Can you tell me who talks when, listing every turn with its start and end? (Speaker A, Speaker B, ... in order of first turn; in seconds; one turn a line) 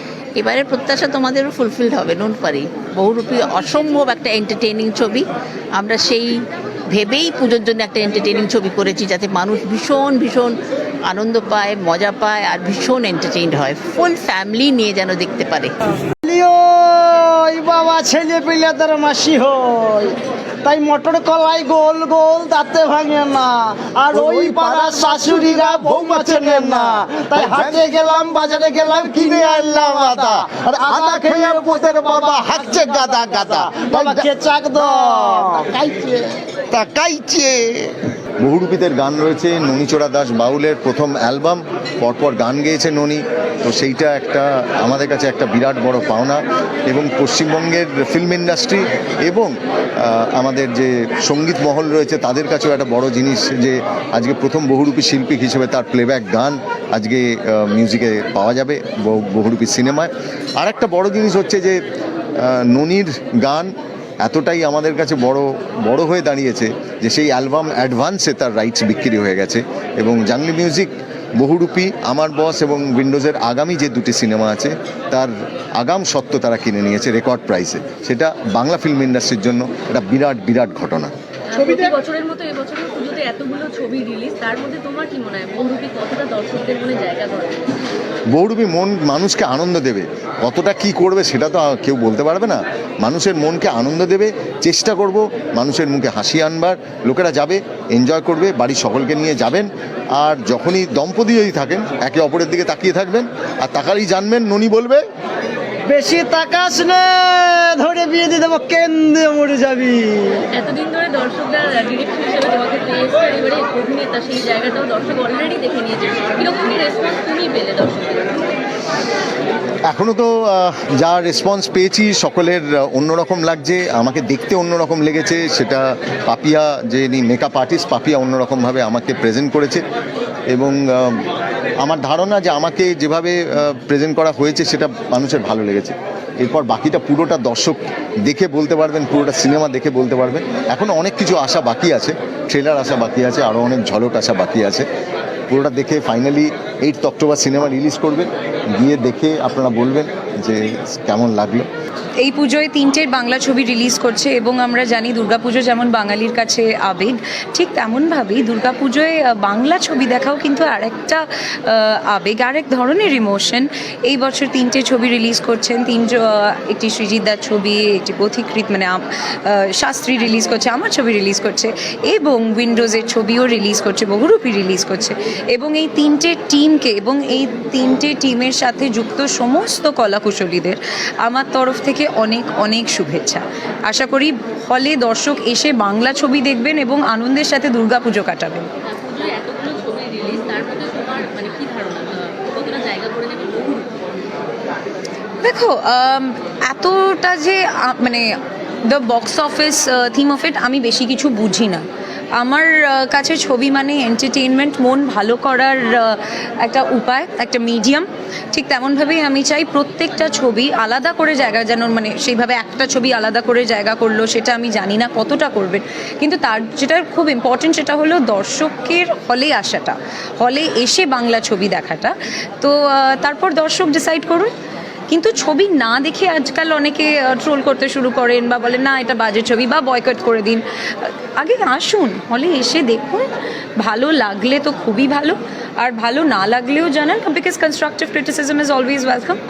Speaker A: 0.4-5.2
Speaker A: 5.8-6.3
Speaker A: 6.9-10.5
Speaker A: 11.1-15.7
Speaker B: 16.2-35.7
Speaker C: 24.1-28.0
Speaker C: 29.0-61.8
Speaker C: 62.4-81.1
Speaker D: 81.5-87.6
Speaker C: 88.3-105.0
Speaker B: 105.9-110.4
Speaker D: 110.5-118.4
Speaker C: 119.9-129.8
Speaker C: 130.5-131.2
Speaker C: 131.8-144.8
Speaker C: 145.5-151.7
Speaker E: 152.2-188.7
Speaker D: 188.8-193.9
Speaker E: 195.4-198.3
Speaker E: 198.8-201.8
Speaker E: 202.4-224.5
Speaker E: 225.1-233.3
Speaker E: 233.8-239.4